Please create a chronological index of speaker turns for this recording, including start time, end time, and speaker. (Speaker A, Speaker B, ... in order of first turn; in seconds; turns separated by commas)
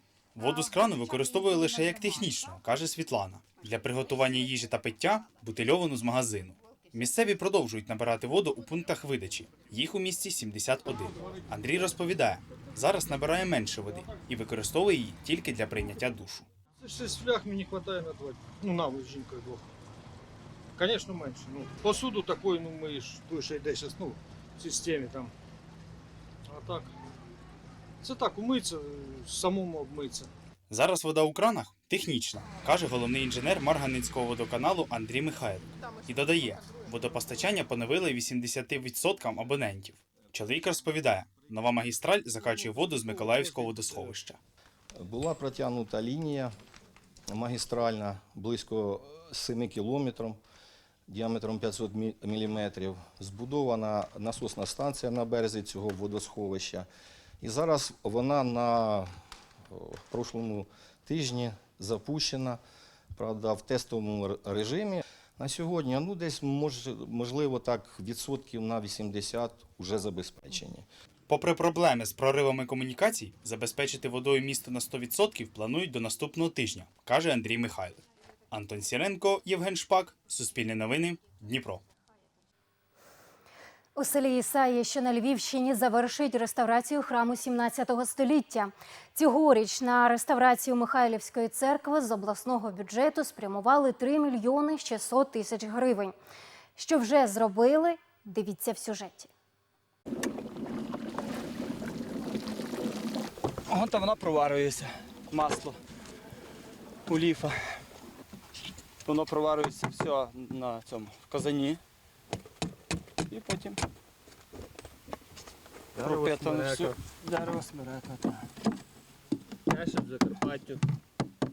Speaker A: 0.3-16.5, Speaker B: 16.8-19.6, Speaker B: 20.8-25.3, Speaker B: 26.5-26.9, Speaker B: 28.0-30.3, Speaker A: 30.7-44.4, Speaker C: 45.0-46.5, Speaker C: 47.3-50.4, Speaker C: 51.1-56.9, Speaker C: 57.4-59.1, Speaker C: 59.7-62.6, Speaker C: 63.1-70.8, Speaker A: 71.3-81.8, Speaker D: 83.9-96.1, Speaker D: 96.8-99.3, Speaker E: 103.7-105.7, Speaker E: 107.1-107.5, Speaker E: 109.0-111.8, Speaker E: 113.3-113.8, Speaker E: 116.0-118.2